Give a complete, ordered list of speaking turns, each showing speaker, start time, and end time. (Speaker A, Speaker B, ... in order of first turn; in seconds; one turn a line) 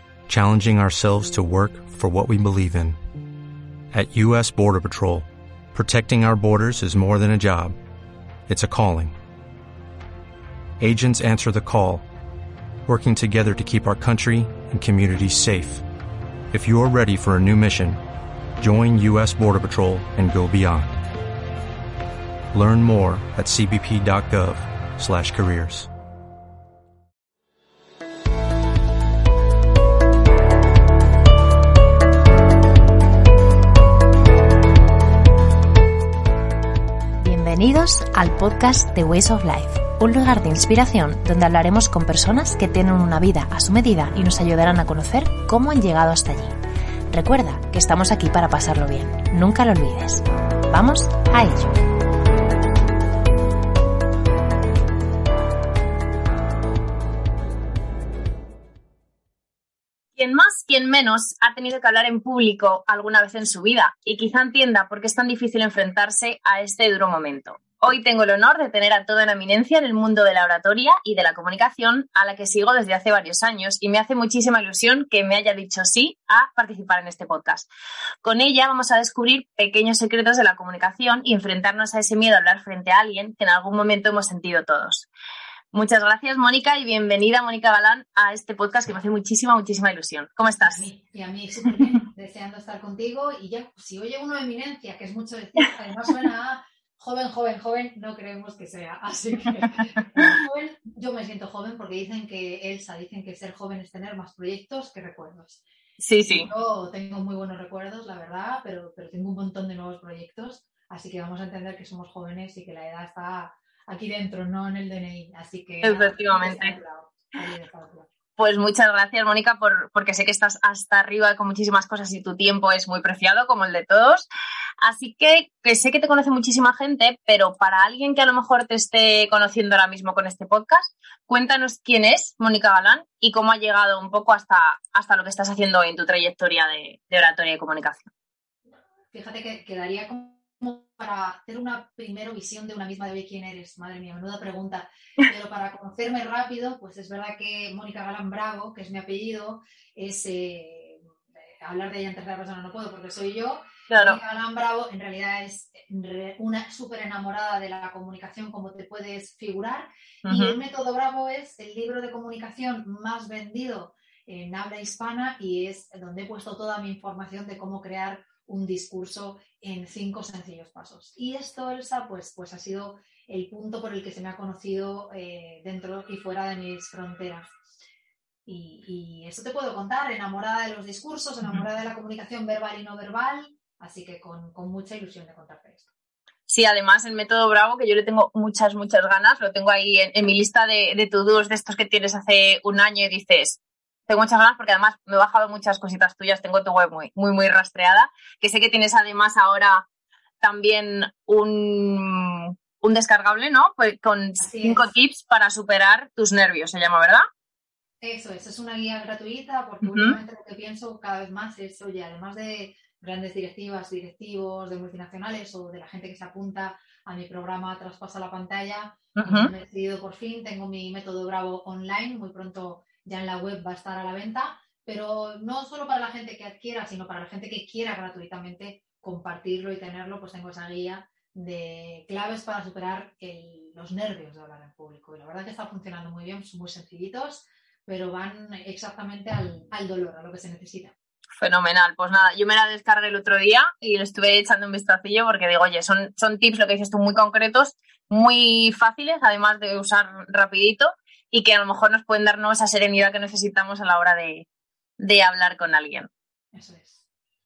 Speaker A: 0.3-3.0
Speaker A: 3.9-7.8
Speaker A: 8.5-9.1
Speaker A: 10.8-12.0
Speaker A: 12.8-15.8
Speaker A: 16.5-18.0
Speaker A: 18.6-21.0
Speaker A: 22.5-25.9
Speaker B: 37.2-46.6
Speaker B: 47.1-51.8
Speaker C: 60.1-77.7
Speaker C: 78.2-85.1
Speaker C: 85.7-90.8
Speaker D: 90.6-105.6
Speaker C: 106.0-106.5
Speaker D: 106.3-118.1
Speaker C: 115.8-116.8
Speaker C: 118.4-124.3
Speaker C: 124.8-138.1
Speaker D: 139.1-177.5
Speaker C: 153.9-154.2
Speaker C: 160.2-160.6
Speaker D: 178.4-185.9
Speaker C: 186.5-199.8
Speaker C: 200.4-207.2
Speaker D: 204.4-204.9
Speaker D: 208.0-240.9
Speaker C: 209.8-210.2
Speaker C: 219.2-219.5
Speaker C: 241.4-254.4
Speaker C: 255.0-256.1
Speaker D: 256.5-257.0